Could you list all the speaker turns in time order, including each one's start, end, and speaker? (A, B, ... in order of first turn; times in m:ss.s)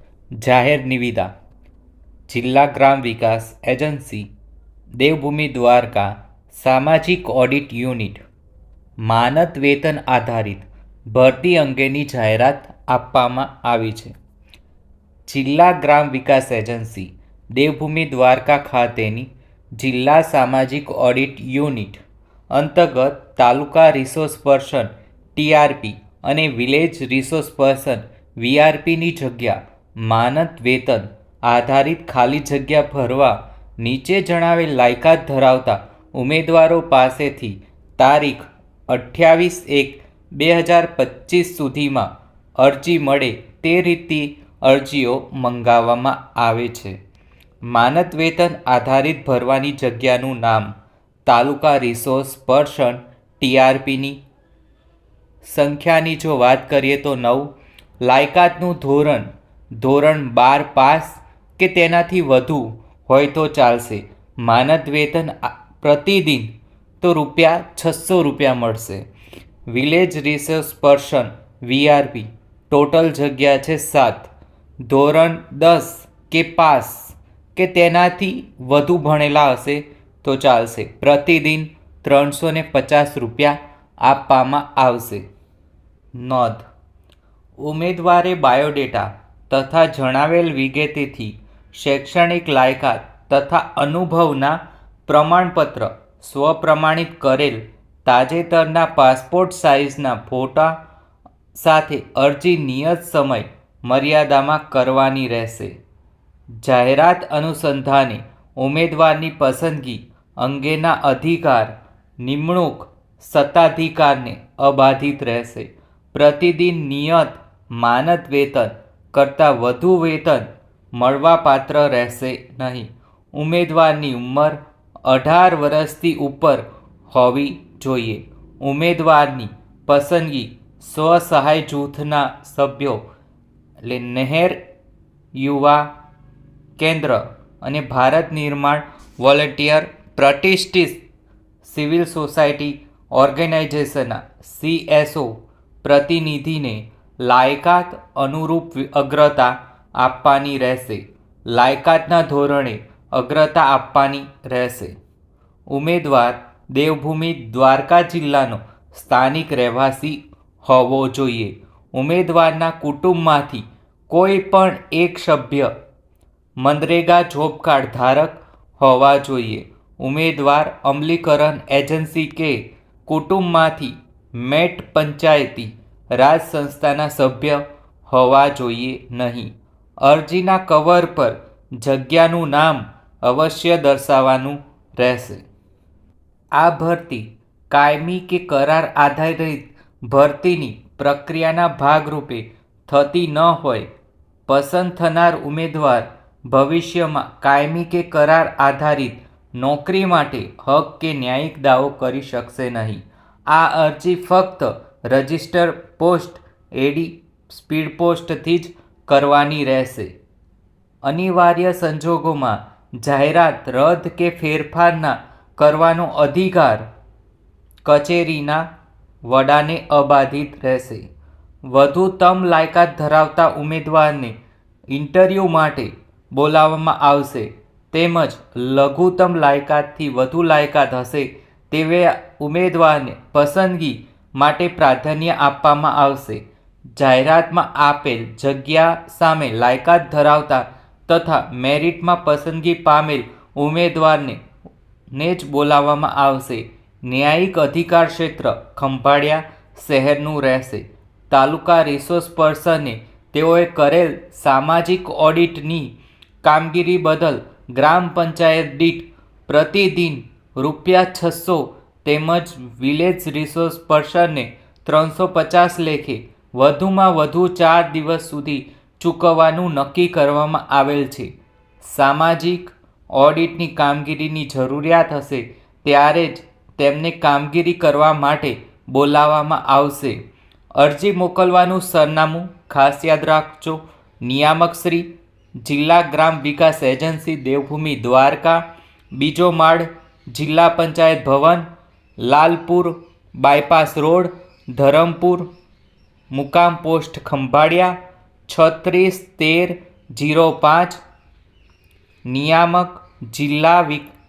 0:00.4-0:01.3 A
0:02.3-0:04.3 A
0:05.0-0:08.2 A
0:09.0-0:14.1 A
0:15.3-0:47.0 A
0:47.7-0:50.7 A
0:51.3-0:54.2 A
0:55.4-0:57.5 A
0:58.0-1:09.1 A
1:09.7-1:14.3 A
1:14.9-1:25.3 A
1:26.2-1:26.6 A
1:27.6-1:40.8 A
1:41.6-1:45.8 A
1:46.6-2:13.0 A
2:13.8-2:14.6 A
2:15.4-2:15.9 A
2:16.8-2:21.0 A
2:21.6-2:34.9 A
2:35.7-2:45.7 A
2:46.6-3:05.4 A
3:06.6-3:13.9 A
3:14.5-3:30.2 A
3:31.0-3:36.8 A
3:37.8-3:38.7 A
3:39.2-3:41.1 A
3:41.7-3:44.4 A
3:44.9-3:56.4 A
3:57.0-4:04.4 A
4:05.1-4:40.2 A
4:40.8-4:45.1 A
4:45.6-4:48.6 A
4:49.1-4:51.7 A
4:52.2-4:55.5 A
4:56.3-4:58.0 A
4:58.5-5:01.0 A
5:02.3-5:04.1 A